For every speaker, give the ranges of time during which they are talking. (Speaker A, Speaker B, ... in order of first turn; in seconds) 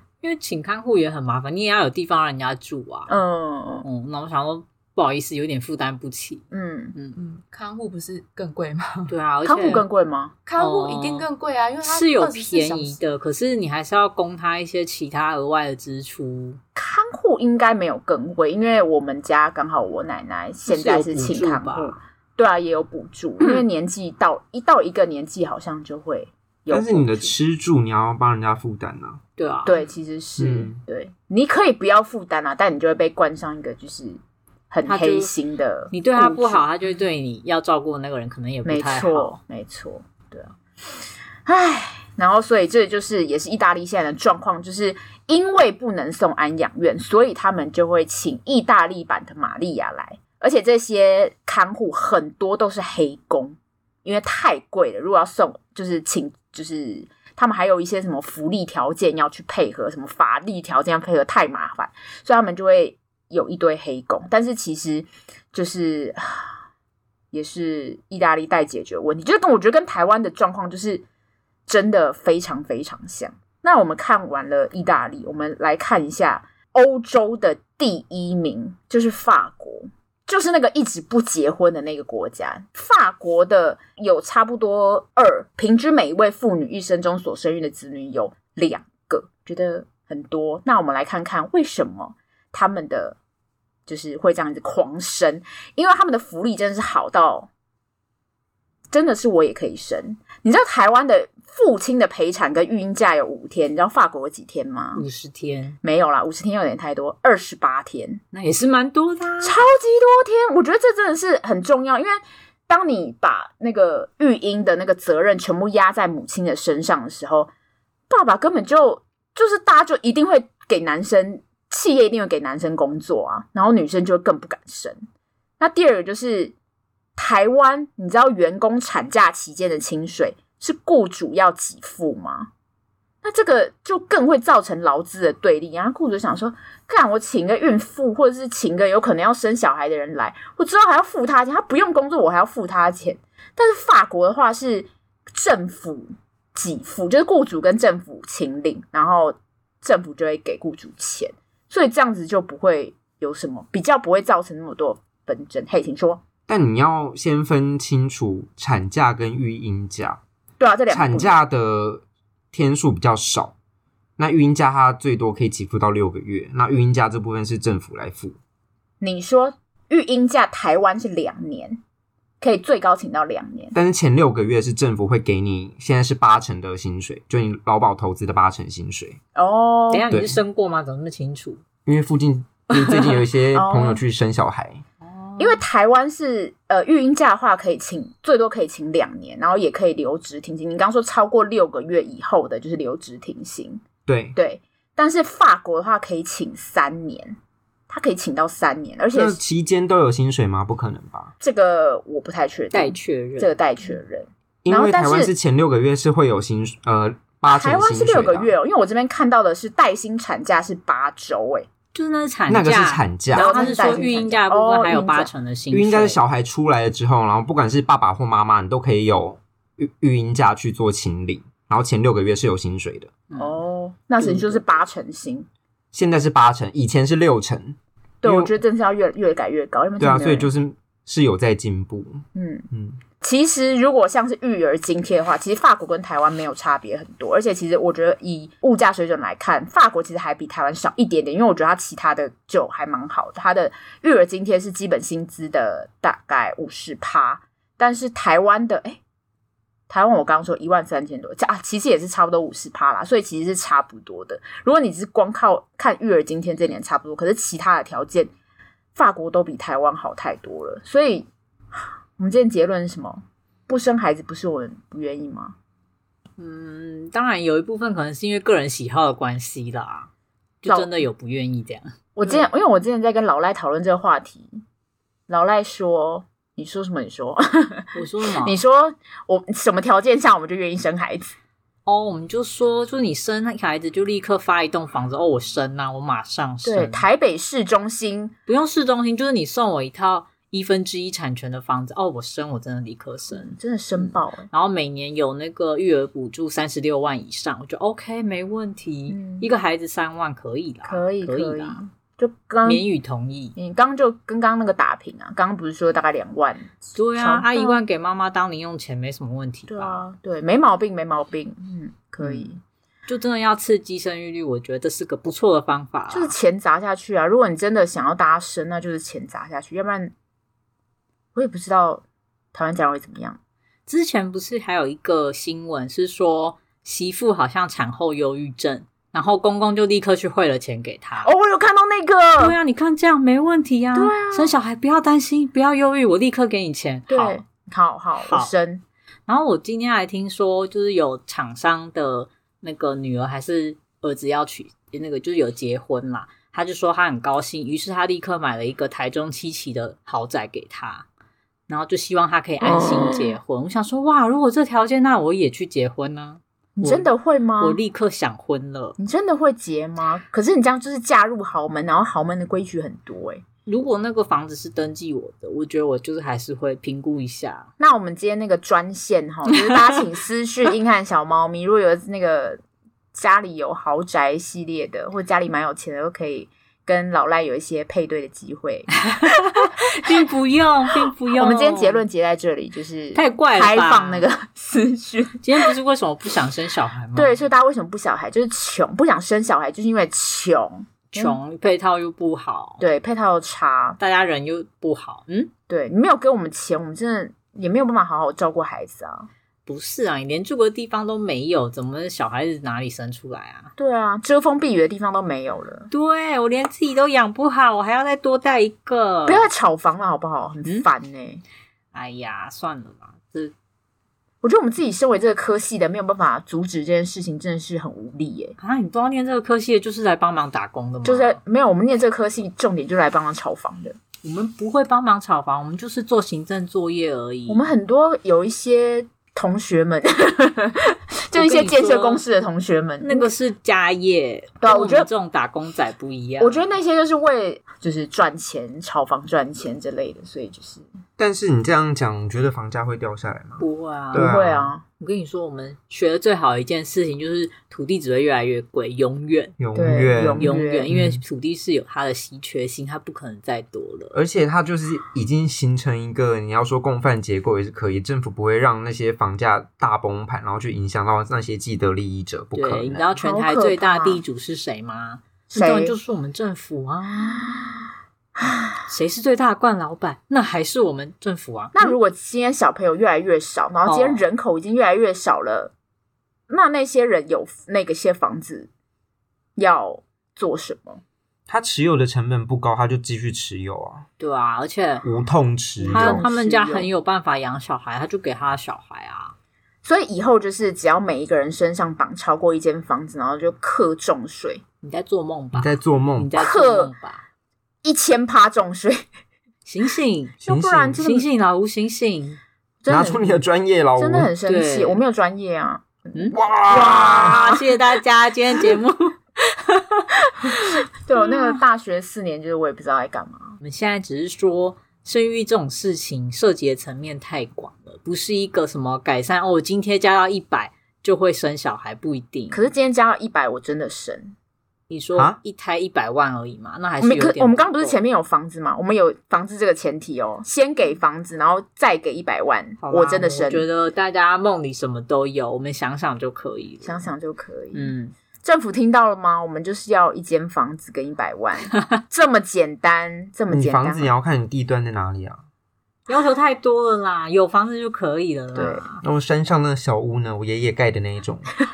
Speaker A: 0.2-3.2, 3.8-7.2, 9.1-9.8, 10.6-11.3, 11.8-16.6, 20.7-22.0, 29.4-29.8, 34.9-35.3, 35.9-39.4, 104.9-105.8, 108.3-109.6, 179.9-181.6, 185.0-185.6, 202.7-203.5, 211.9-216.2, 223.3-223.6, 224.2-224.6, 266.4-270.1, 270.6-272.5, 277.9-278.6, 281.9-287.1, 288.5-301.8, 302.6-303.6, 306.9-310.0, 312.2-312.5, 313.1-316.3, 323.9-331.3, 332.4-337.4, 338.2-338.5, 339.3-351.1, 351.7-358.9, 363.6-367.7, 379.0-382.0, 383.1-384.3, 385.4-387.4, 391.1-392.8, 394.0-395.5, 399.6-403.7, 405.9-409.5, 411.9-413.5, 418.6-421.4, 424.2-427.6, 431.3-432.2, 433.0-436.6, 443.6-444.3, 445.0-449.6, 450.4-454.1, 462.5-467.5, 468.9-471.9, 473.9-474.2, 484.2-485.1, 485.9-489.3, 494.8-497.2, 499.6-502.4, 504.4-505.0, 506.1-511.6, 513.6-522.6, 524.9-528.0, 532.8-537.0, 537.7-538.1, 546.1-549.0
Speaker B: 3.1-3.8, 6.5-7.0, 9.4-10.3, 16.8-27.3, 29.6-34.2, 34.7-36.6, 38.6-40.5, 41.5-66.5, 67.3-71.0, 71.7-93.2, 93.9-97.5, 98.9-105.0, 105.8-108.2, 109.4-117.5, 118.1-125.0, 125.6-126.5, 127.2-132.5, 133.2-156.2, 160.6-161.3, 169.0-171.8, 172.4-173.7, 179.3-180.1, 182.7-184.0, 185.4-193.8, 194.3-197.4, 197.9-199.4, 201.4-205.3, 207.5-211.7, 213.3-215.3, 223.4-225.5, 228.2-230.5, 232.3-232.7, 233.2-249.0, 249.9-258.3, 258.9-261.3, 262.2-265.5, 270.6-271.0, 272.1-274.6, 275.3-281.3, 286.6-288.3, 293.3-294.5, 299.1-299.5, 300.9-302.8, 303.6-307.8, 309.7-312.6, 316.1-320.1, 321.3-323.4, 331.2-332.6, 333.9-334.5, 337.1-338.8, 352.7-353.3, 356.8-357.8, 359.0-363.4, 367.8-372.6, 373.1-379.3, 381.0-385.7, 387.1-391.4, 392.8-394.0, 395.7-399.3, 403.8-405.9, 409.2-411.4, 414.4-418.6, 421.0-424.0, 427.5-433.3, 434.6-435.1, 436.4-440.8, 444.1-444.8, 449.7-450.9, 463.2-464.2, 465.5-465.9, 467.3-467.8, 468.4-468.8, 471.7-475.7, 476.5-478.7, 479.6-481.0, 485.8-486.9, 489.8-494.6, 496.4-496.9, 497.8-499.0, 500.4-501.3, 502.8-503.4, 504.0-507.6, 510.4-513.6, 522.5-524.3, 527.0-533.6, 536.8-544.1, 548.5-548.8
Speaker C: 7.1-9.1, 10.4-13.0
Speaker D: 26.7-29.2, 30.4-30.8, 156.5-160.2, 160.9-163.5, 164.2-168.4, 173.7-179.2, 180.1-180.4, 181.8-184.8, 194.1-194.3, 199.1-201.3, 204.6-208.5, 212.5-213.7, 215.7-223.1, 225.9-228.5, 230.0-233.0, 441.2-444.7, 449.6-451.2, 454.1-463.1, 481.5-484.1, 485.0-486.2, 495.5-496.3, 500.5-501.0, 502.9-504.3, 506.3-507.4, 543.5-545.4, 549.0-551.5